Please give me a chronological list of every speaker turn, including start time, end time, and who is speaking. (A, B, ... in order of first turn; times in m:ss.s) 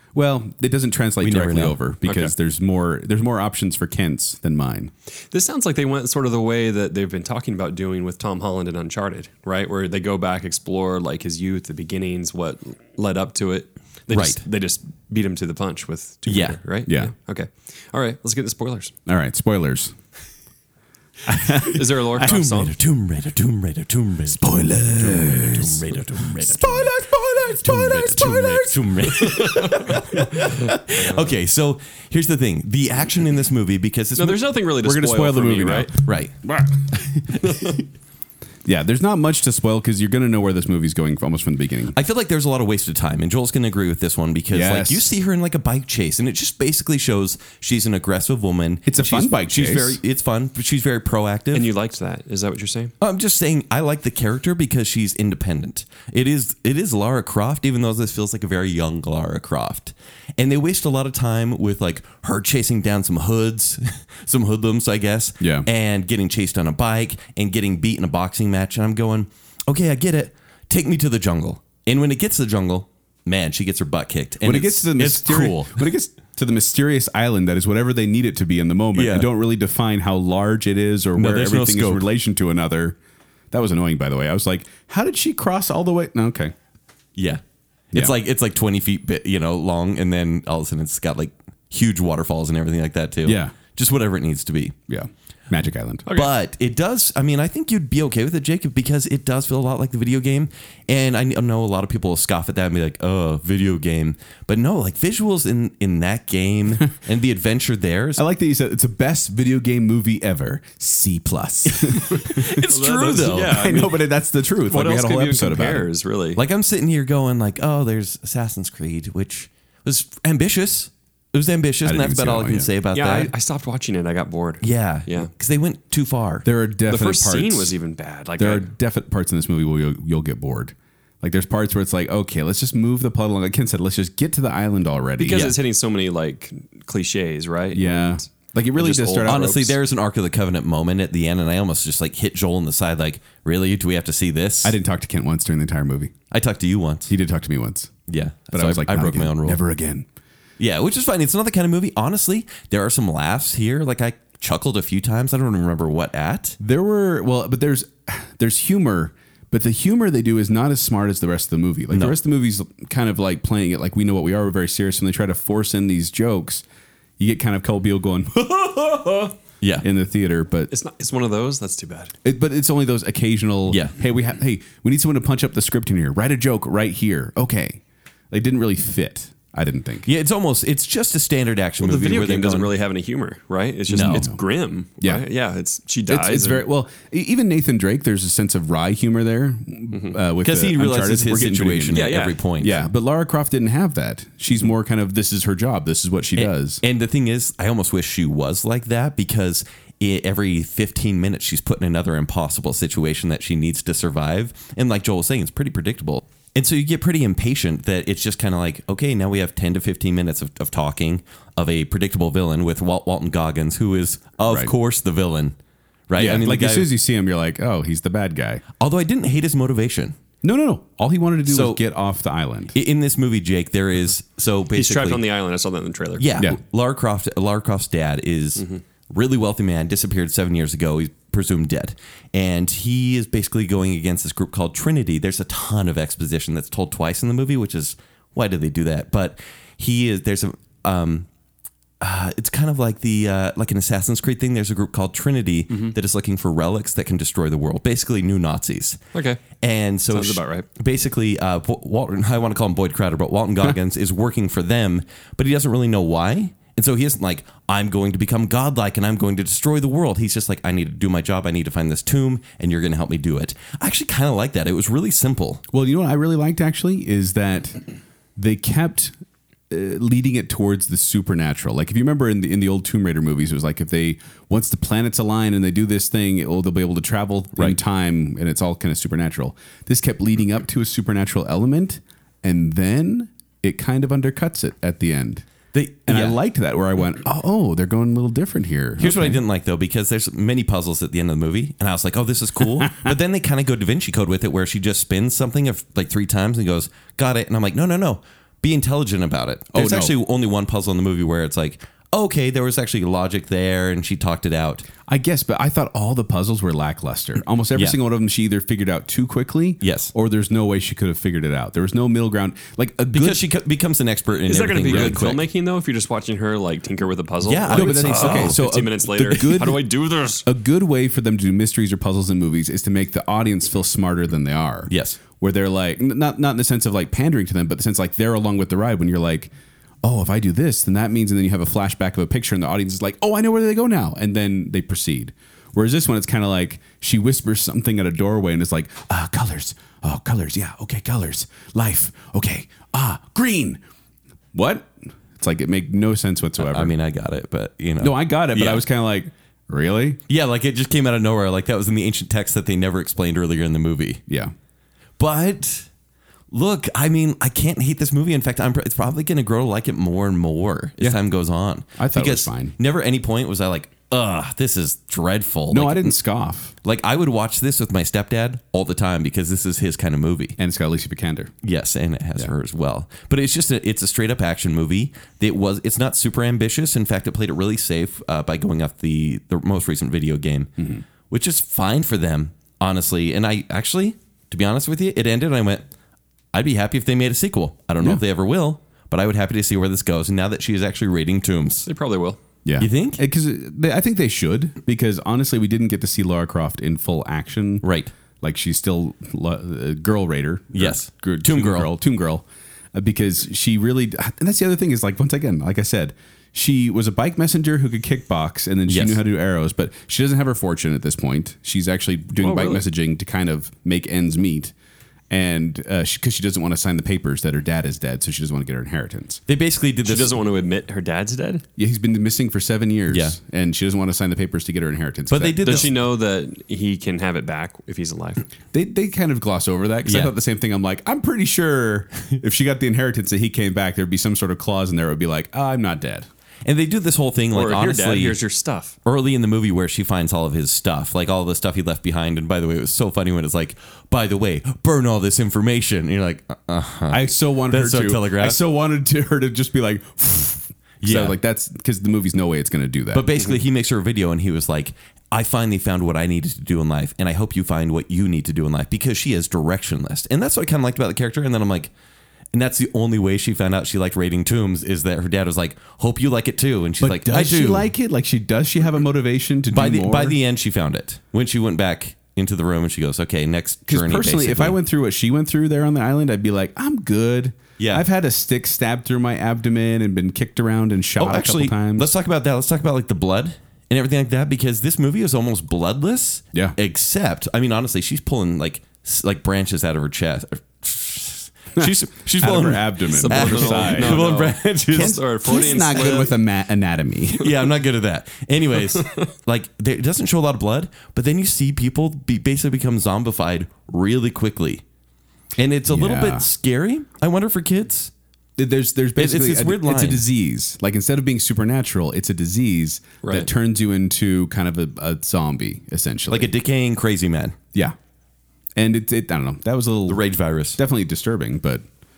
0:00.1-0:04.9 A
0:01.2-0:01.8 B
0:02.0-0:02.3 C
0:05.3-0:18.9 C
0:14.1-0:14.4 B
0:16.2-0:16.6 B
0:16.9-0:17.1 A
0:19.1-0:19.9 A
0:21.2-0:22.4 A
0:21.7-0:22.8 C
0:22.2-0:26.9 B
0:24.3-0:29.3 A
0:27.5-0:34.4 B
0:29.2-0:29.8 C
0:30.9-0:31.3 C
0:34.2-0:35.9 C
0:34.8-0:35.9 A
0:36.0-0:36.3 B
0:36.5-0:36.9 A
0:37.3-0:37.8 C
0:38.6-0:42.0 A
0:41.9-0:51.7 B
0:44.5-0:45.2 A
0:48.8-0:50.0 A
0:51.5-0:52.9 C
0:53.0-1:15.9 B
1:05.4-1:05.7 A
1:14.4-1:23.0 A
1:18.9-1:19.3 B
1:21.1-1:22.0 B
1:23.5-1:26.5 A
1:27.2-1:27.4 B
1:27.9-1:34.7 B
1:33.2-1:33.5 A
1:34.9-1:36.0 A
1:36.0-1:36.3 C
1:36.1-1:48.2 B
1:48.2-1:52.7 A
1:52.0-1:53.9 B
1:52.6-1:54.1 C
1:53.4-1:55.9 A
1:54.6-1:56.4 C
1:56.4-2:03.3 B
2:01.8-2:02.7 A
2:02.9-2:05.3 C
2:04.6-2:06.4 B
2:06.4-2:07.7 A
2:06.8-2:08.7 C
2:08.4-2:15.5 A
2:15.2-2:19.8 C
2:15.3-2:15.5 B
2:17.7-2:19.5 A
2:19.2-2:24.8 B
2:24.6-2:26.1 A
2:26.3-2:27.1 B
2:27.1-2:27.9 A
2:28.1-2:29.6 B
2:28.5-2:30.0 A
2:30.6-2:36.6 B
2:36.6-2:46.6 A
2:41.9-2:42.2 B
2:47.2-2:50.7 A
2:50.7-2:52.1 C
2:52.2-2:57.8 A
2:53.6-2:54.0 B
2:58.3-3:00.1 A
3:00.0-3:02.7 B
3:01.8-3:06.7 C
3:03.9-3:04.3 B
3:03.9-3:04.4 A
3:06.1-3:16.8 A
3:09.9-3:10.2 C
3:10.4-3:12.9 B
3:11.9-3:12.4 C
3:16.4-3:35.5 B
3:34.4-3:34.7 A
3:36.1-3:36.9 B
3:36.2-3:38.6 A
3:38.8-3:40.1 B
3:40.4-3:42.7 A
3:41.4-3:41.8 B
3:42.7-3:45.2 B
3:44.7-3:46.4 C
3:46.2-4:01.3 B
4:02.0-4:09.0 B
4:09.1-4:09.6 C
4:09.5-4:25.6 B
4:10.1-4:10.7 C
4:25.7-4:27.8 A
4:28.4-4:29.1 A
4:29.7-4:45.4 A
4:37.6-4:37.8 B
4:45.7-4:46.4 B
4:46.0-4:49.4 A
4:49.0-5:04.9 B
4:59.7-5:00.1 A
5:05.1-5:13.4 A
5:09.8-5:10.1 B
5:13.1-5:15.4 B
5:14.5-5:20.4 C
5:14.9-5:15.3 A
5:17.4-5:18.6 B
5:17.7-5:19.9 A
5:20.4-5:29.5 A
5:24.9-5:25.2 B
5:30.0-5:43.8 A
5:44.5-5:46.9 A
5:46.6-5:48.8 B
5:48.0-5:50.2 A
5:50.3-5:54.2 B
5:55.2-5:55.9 B
5:56.5-6:06.2 B
6:02.0-6:02.8 A
6:05.7-6:06.7 A
6:06.8-6:10.6 B
6:10.6-6:11.5 A
6:11.6-6:20.7 B
6:20.8-6:21.0 A
6:21.3-6:25.8 B
6:26.5-6:31.9 B
6:31.8-6:32.4 C
6:32.6-6:37.8 A
6:32.8-6:33.2 B
6:37.8-6:38.1 B
6:38.4-6:42.4 A
6:40.7-6:41.9 B
6:42.9-6:54.7 A
6:48.9-6:49.2 B
6:52.4-6:52.8 C
6:55.3-6:59.4 A
6:59.5-7:00.4 B
7:00.0-7:01.6 C
7:01.8-7:05.9 A
7:03.1-7:03.4 B
7:05.3-7:05.9 B
7:05.6-7:08.4 C
7:08.7-7:16.3 A
7:10.0-7:10.3 B
7:16.6-7:18.4 B
7:17.5-7:19.0 C
7:19.0-7:28.6 B
7:27.1-7:33.4 A
7:31.0-7:31.4 B
7:33.1-7:41.9 B
7:42.5-7:47.9 B
7:47.0-7:50.4 A
7:49.7-7:54.8 B
7:53.9-8:02.1 A
7:57.8-7:58.0 B
8:01.2-8:15.2 B
8:11.8-8:14.2 A
8:13.1-8:16.4 C
8:14.9-8:17.5 A
8:17.4-8:24.8 B
8:18.7-8:19.3 C
8:25.6-8:28.1 B
8:25.9-8:26.5 A
8:28.6-8:36.5 A
8:29.2-8:30.2 B
8:33.2-8:33.5 C
8:36.3-8:37.5 B
8:38.8-8:40.2 A
8:40.1-8:40.8 B
8:40.8-8:41.8 A